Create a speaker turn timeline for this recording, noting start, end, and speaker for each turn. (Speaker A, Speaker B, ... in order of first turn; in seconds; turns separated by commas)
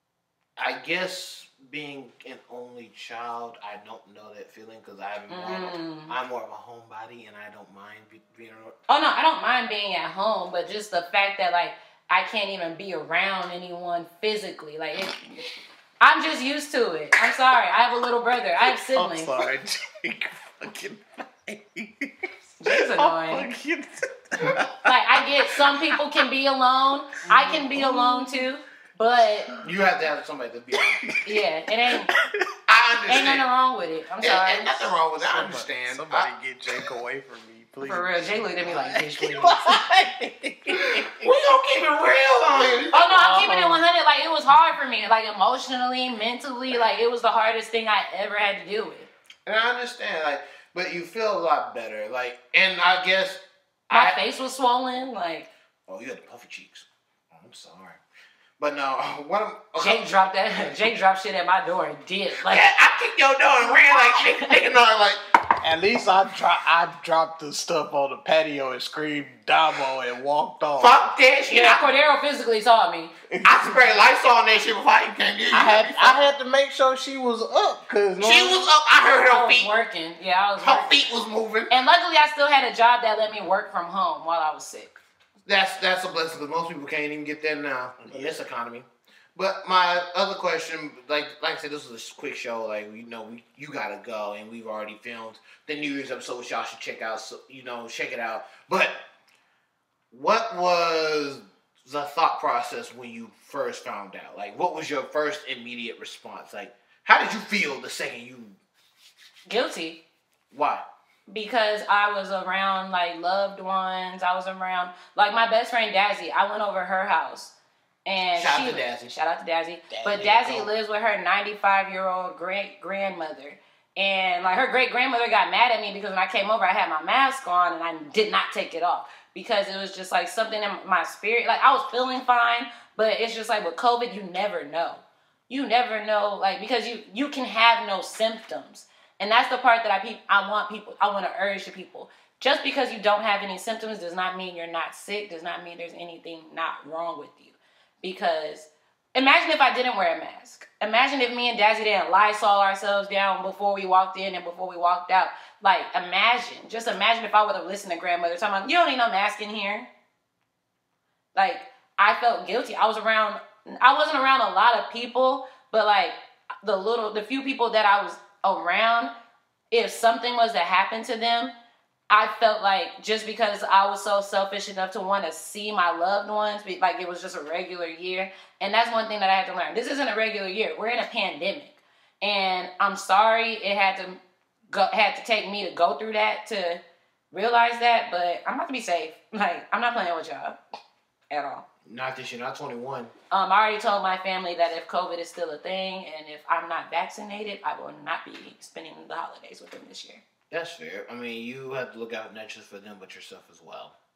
Speaker A: 0.6-8.7, Speaker B: 5.3-6.2, Speaker B: 8.9-15.4, Speaker B: 16.0-19.4, Speaker C: 18.6-22.1, Speaker B: 22.6-23.5, Speaker C: 22.6-26.2, Speaker B: 24.8-29.5, Speaker C: 27.3-28.5, Speaker A: 29.6-31.0, Speaker C: 30.8-32.4, Speaker B: 31.2-32.1, Speaker A: 32.7-33.5, Speaker B: 33.1-34.9, Speaker A: 34.2-36.8, Speaker C: 35.2-41.5, Speaker B: 37.8-39.8, Speaker A: 40.8-43.8, Speaker B: 42.9-49.1, Speaker A: 49.4-54.2, Speaker B: 53.9-55.5, Speaker A: 55.9-58.0, Speaker A: 58.6-60.0, Speaker B: 59.8-62.7, Speaker A: 62.4-65.2, Speaker B: 63.9-64.5, Speaker C: 65.6-71.0, Speaker A: 70.8-71.9, Speaker B: 71.5-73.1, Speaker C: 73.3-74.0, Speaker A: 73.4-76.3, Speaker C: 75.5-78.7, Speaker A: 78.2-79.7, Speaker B: 79.3-81.1, Speaker A: 80.6-81.8, Speaker B: 81.7-85.0, Speaker A: 85.5-99.0, Speaker C: 88.0-88.4, Speaker A: 100.1-108.6, Speaker B: 109.5-110.0, Speaker A: 110.5-110.8, Speaker B: 111.3-159.9, Speaker A: 118.3-119.1, Speaker C: 119.9-120.7, Speaker B: 161.3-169.1, Speaker B: 169.7-171.5, Speaker B: 172.1-190.6, Speaker B: 191.3-191.6, Speaker A: 191.8-193.1, Speaker B: 193.3-200.2, Speaker A: 200.5-203.9